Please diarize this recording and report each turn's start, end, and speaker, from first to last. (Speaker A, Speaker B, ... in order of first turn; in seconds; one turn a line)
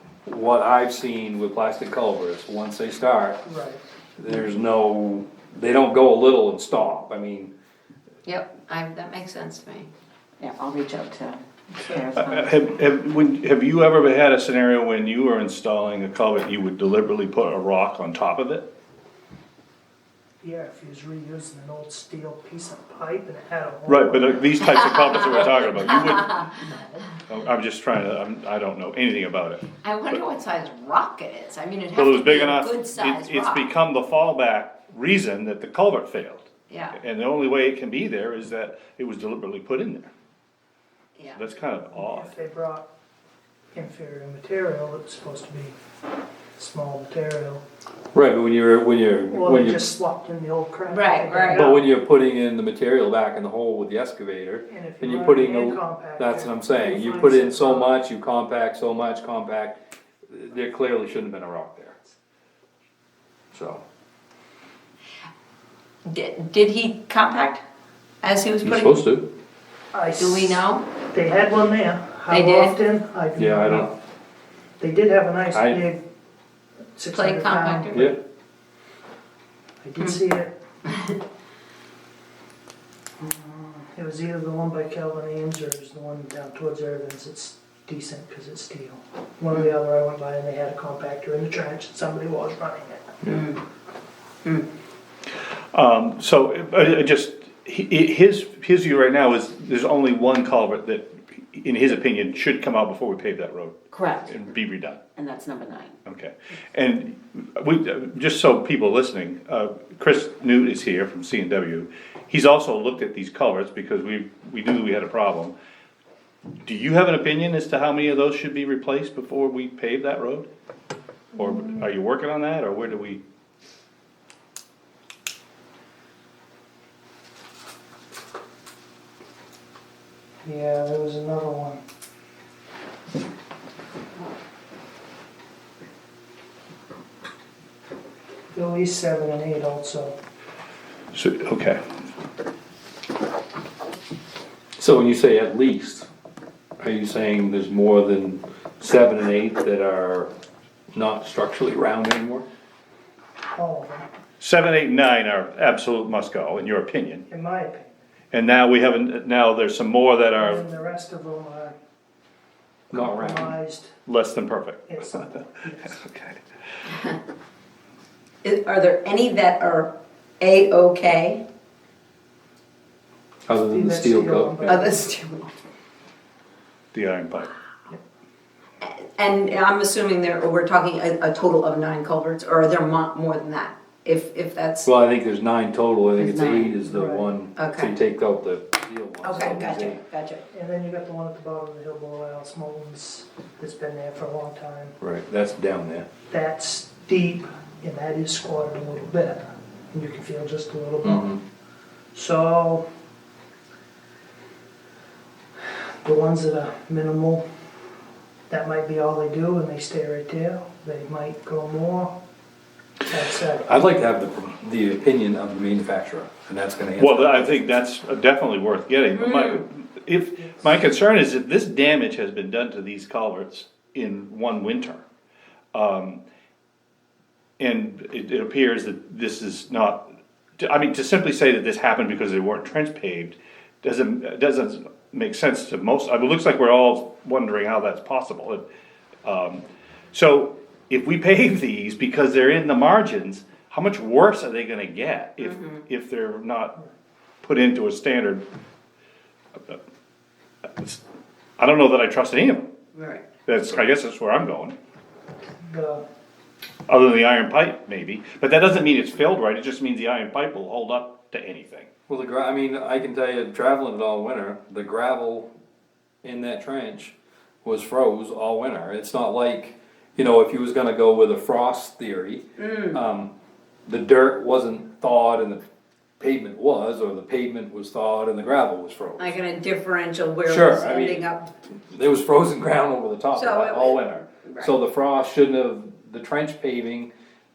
Speaker A: 0.2-3.4
Speaker B: 3.4-3.8
Speaker A: 4.2-7.5
Speaker C: 8.2-9.9
Speaker D: 10.4-12.6
Speaker E: 12.1-18.7
Speaker B: 20.4-24.5
Speaker E: 23.9-26.6
Speaker C: 24.7-27.1
Speaker E: 27.3-30.2
Speaker C: 29.8-33.7
Speaker E: 31.9-40.1
Speaker C: 36.7-37.0
Speaker E: 41.3-42.3
Speaker B: 41.9-42.9
Speaker B: 43.7-45.8
Speaker B: 46.6-47.6
Speaker A: 48.1-49.8
Speaker B: 49.3-51.9
Speaker C: 50.9-51.7
Speaker A: 51.5-59.8
Speaker B: 54.7-58.0
Speaker A: 60.3-62.0
Speaker A: 63.5-63.8
Speaker C: 66.0-67.6
Speaker C: 68.2-69.0
Speaker A: 68.6-69.3
Speaker B: 69.9-73.9
Speaker C: 70.2-70.8
Speaker C: 72.3-72.8
Speaker A: 73.4-73.9
Speaker B: 74.8-76.0
Speaker A: 75.5-75.8
Speaker B: 77.0-78.1
Speaker C: 77.1-78.2
Speaker A: 77.9-78.2
Speaker B: 79.8-80.5
Speaker B: 83.2-93.1
Speaker C: 93.2-93.6
Speaker E: 95.7-105.0
Speaker D: 103.9-104.3
Speaker D: 105.2-105.9
Speaker E: 106.0-115.5
Speaker E: 116.6-120.5
Speaker E: 121.3-123.2
Speaker B: 130.4-131.8
Speaker B: 138.5-140.2
Speaker E: 141.1-141.8
Speaker A: 144.8-146.1
Speaker A: 146.8-150.3
Speaker A: 150.9-152.4
Speaker B: 153.5-154.1
Speaker E: 154.4-157.2
Speaker B: 157.3-157.9
Speaker E: 158.3-160.6
Speaker B: 160.4-161.7
Speaker B: 162.9-163.9
Speaker A: 162.9-163.5
Speaker E: 164.1-166.4
Speaker B: 164.9-165.9
Speaker C: 168.4-171.4
Speaker A: 173.5-174.8
Speaker B: 173.6-175.1
Speaker C: 174.6-175.5
Speaker E: 176.9-177.5
Speaker C: 178.8-184.9
Speaker A: 184.8-190.0
Speaker C: 186.2-186.4
Speaker D: 186.3-186.8
Speaker B: 186.8-187.3
Speaker C: 187.6-187.9
Speaker C: 189.2-190.4
Speaker B: 190.5-194.9
Speaker A: 195.0-196.1
Speaker B: 196.3-201.3
Speaker A: 201.0-201.4
Speaker B: 202.1-202.8
Speaker B: 206.0-207.4
Speaker B: 208.5-212.1
Speaker B: 213.0-213.8
Speaker A: 213.6-217.8
Speaker E: 217.0-225.0
Speaker C: 219.1-219.6
Speaker E: 225.7-226.2
Speaker E: 227.6-238.6
Speaker E: 239.2-246.8
Speaker C: 245.4-245.8
Speaker E: 247.4-248.4
Speaker E: 251.6-252.7
Speaker C: 252.9-253.2
Speaker E: 253.5-254.8
Speaker B: 255.6-256.0
Speaker E: 256.9-261.9
Speaker A: 262.1-265.5
Speaker A: 266.2-273.3
Speaker C: 272.6-273.0
Speaker A: 273.9-275.6
Speaker A: 276.2-279.4
Speaker C: 279.2-281.5
Speaker A: 280.4-281.3
Speaker A: 281.9-287.1
Speaker C: 283.3-284.8